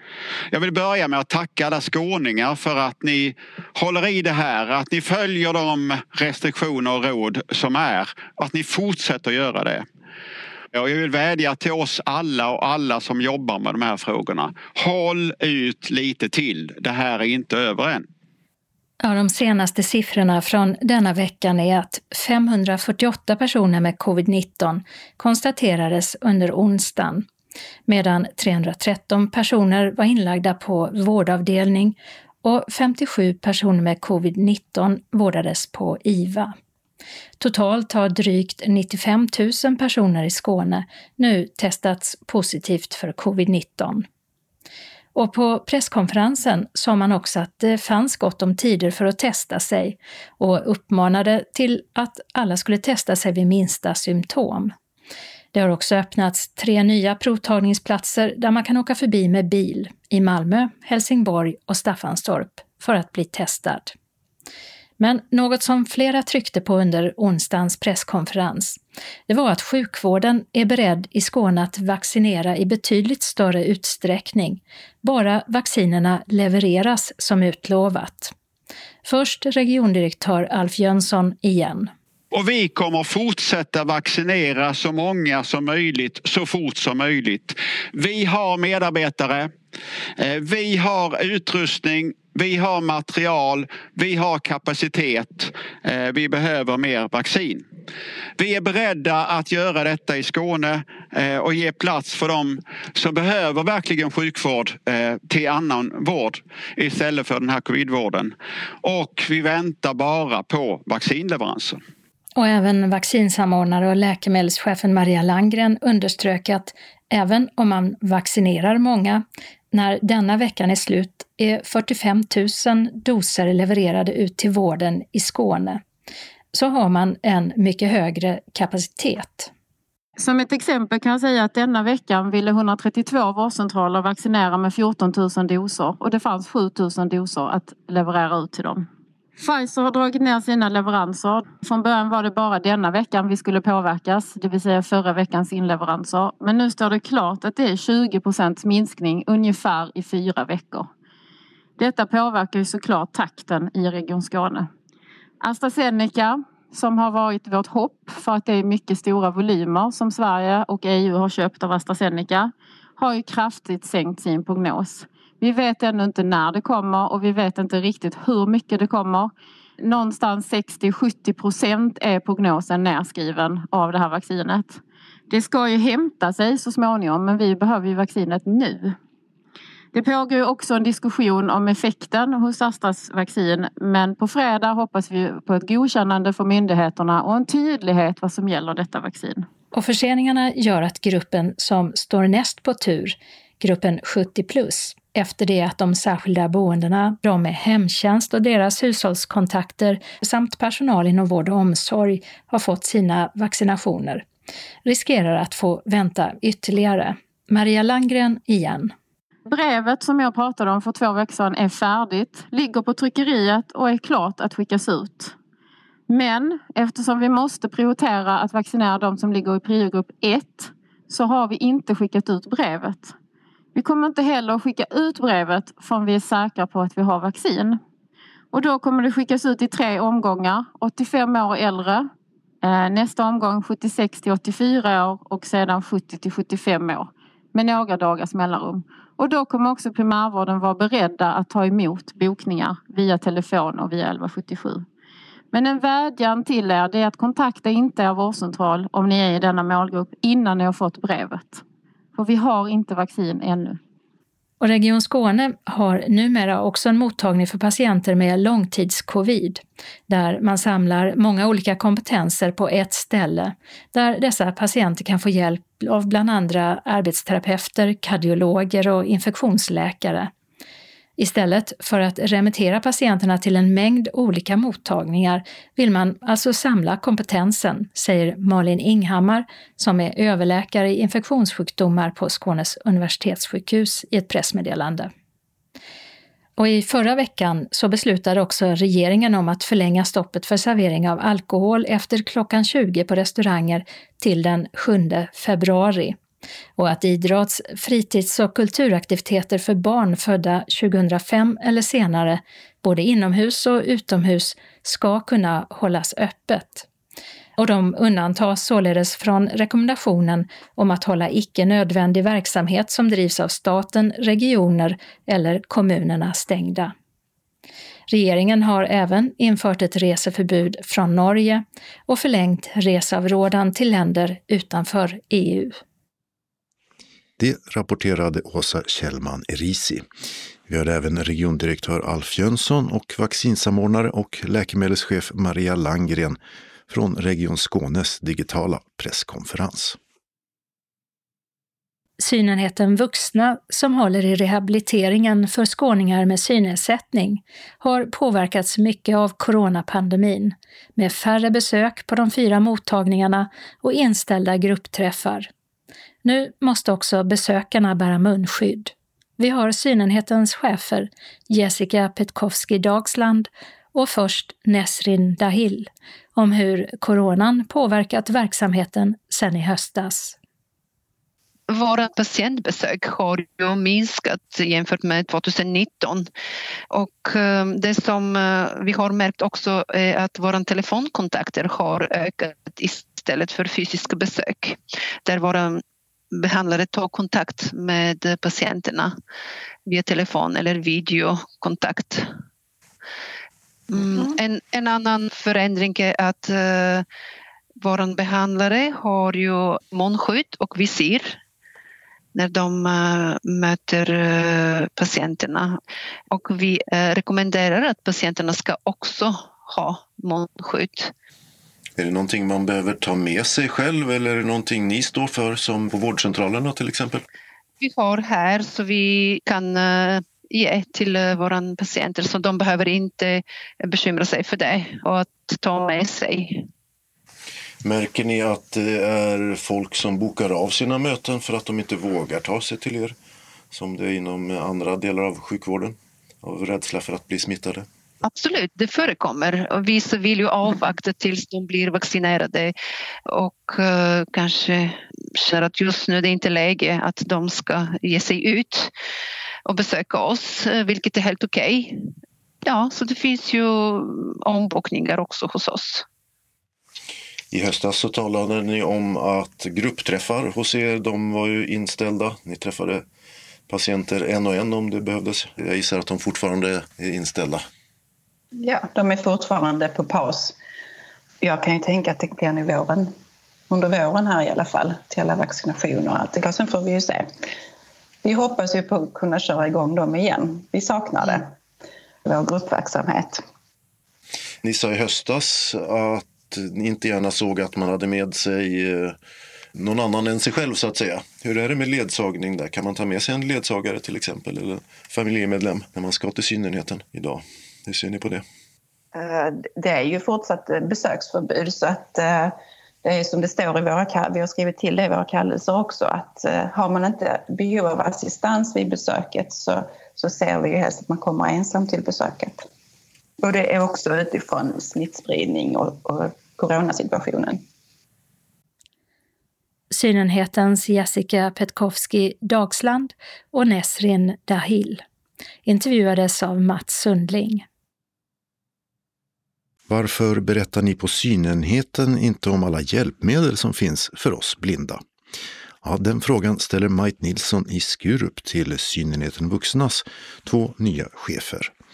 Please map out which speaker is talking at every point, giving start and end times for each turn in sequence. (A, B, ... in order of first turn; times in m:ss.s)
0:00.5-0:09.8 A
0:10.7-0:18.1 A
0:19.0-0:27.3 B
0:27.9-0:36.5 B
0:37.4-0:44.0 B
0:45.1-0:54.7 B
0:55.5-1:03.9 B
1:05.0-1:18.3 B
1:19.0-1:21.9 B
1:22.3-1:29.5 A
1:30.2-1:37.7 A
1:38.4-1:51.8 A
1:52.4-2:05.8 B
2:06.5-2:09.5 B
2:10.2-2:18.9 C
2:19.4-2:30.9 C
2:31.8-2:34.7 C
2:35.4-2:59.0 C
2:59.9-3:09.5 C
3:09.7-3:24.2 B
3:24.8-3:28.9 B
3:29.4-3:35.3 C
3:36.1-3:43.1 C
3:43.7-3:47.8 C
3:48.5-3:52.1 C
3:52.6-4:04.8 C
4:05.5-4:11.6 C
4:12.2-4:13.8 C
4:14.6-4:30.3 B
4:31.2-4:45.1 B
4:46.6-4:56.2 B
4:56.8-5:06.9 B
5:07.6-5:16.9 B
5:18.1-5:25.8 B
5:27.4-5:30.0 D
5:30.7-5:36.4 D
5:36.9-5:40.0 D
5:42.2-5:55.5 B
5:56.2-6:10.4 B
6:11.7-6:16.3 E
6:16.9-6:25.8 E
6:26.3-6:29.1 E
6:29.9-6:32.3 E
6:33.9-6:37.0 E
6:37.8-6:41.4 E
6:42.3-6:45.8 E
6:46.3-6:51.1 E
6:52.0-6:57.2 D
6:57.8-7:06.7 E
7:07.8-7:13.2 D
7:13.7-7:17.9 D
7:18.2-7:22.7 E
7:23.3-7:28.9 E
7:29.6-7:32.1 E
7:32.6-7:36.0 E
7:37.5-7:43.0 D
7:43.7-7:47.6 D
7:48.6-7:50.6 F
7:51.4-7:53.1 F
7:53.7-7:57.3 F
7:58.2-8:01.5 F
8:02.2-8:03.4 F
8:04.6-8:09.2 D
8:09.7-8:18.4 D
8:19.1-8:32.6 F
8:33.4-8:37.6 F
8:39.9-8:45.0 B
8:45.6-8:47.6 B
8:49.9-8:55.0 D
8:55.8-9:01.7 D